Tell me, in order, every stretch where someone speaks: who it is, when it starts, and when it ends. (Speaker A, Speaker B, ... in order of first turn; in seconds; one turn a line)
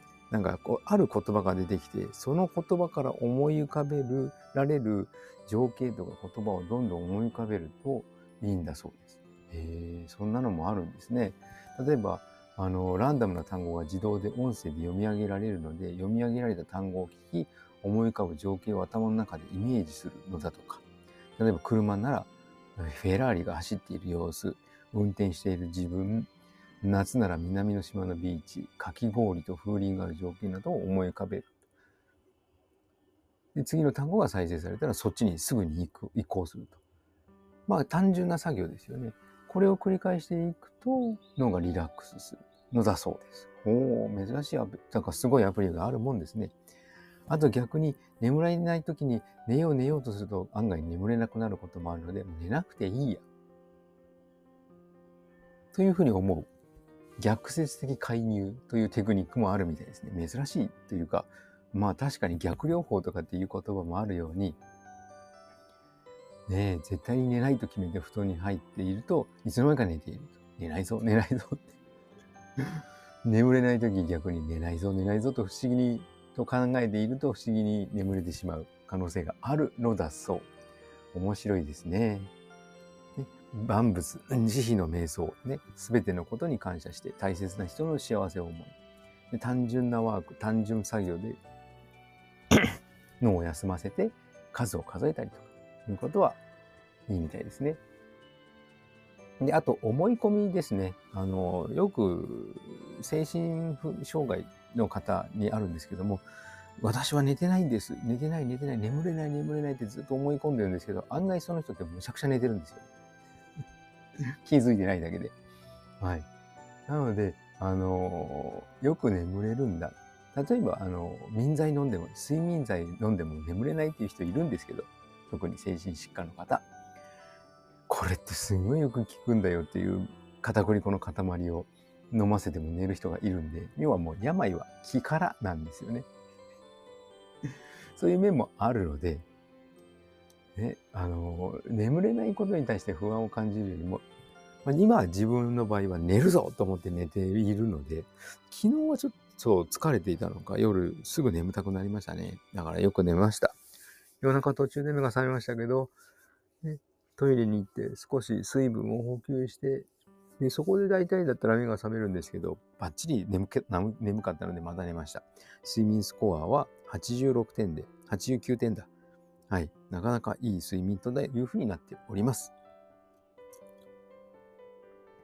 Speaker A: 0.3-20.8
Speaker A: 21.4-26.3
Speaker A: 26.8-31.5
Speaker A: 33.5-36.8
Speaker A: 37.7-46.5
Speaker A: 47.3-53.2
Speaker A: 55.7-56.5
Speaker A: 57.2-64.6
Speaker A: 66.5-71.7
Speaker A: 73.2-80.5
Speaker A: 81.1-82.3
Speaker A: 83.2-88.7
Speaker A: 89.3-91.4
Speaker A: 92.5-96.4
Speaker A: 97.1-97.8
Speaker A: 99.4-106.2
Speaker A: 106.8-112.8
Speaker A: 114.4-115.3
Speaker A: 116.0-116.3
Speaker A: 116.9-126.7
Speaker A: 127.9-136.1
Speaker A: 137.9-139.2
Speaker A: 140.6-144.0
Speaker A: 144.6-153.6
Speaker A: 154.2-155.9
Speaker A: 156.6-168.9
Speaker A: 169.5-172.5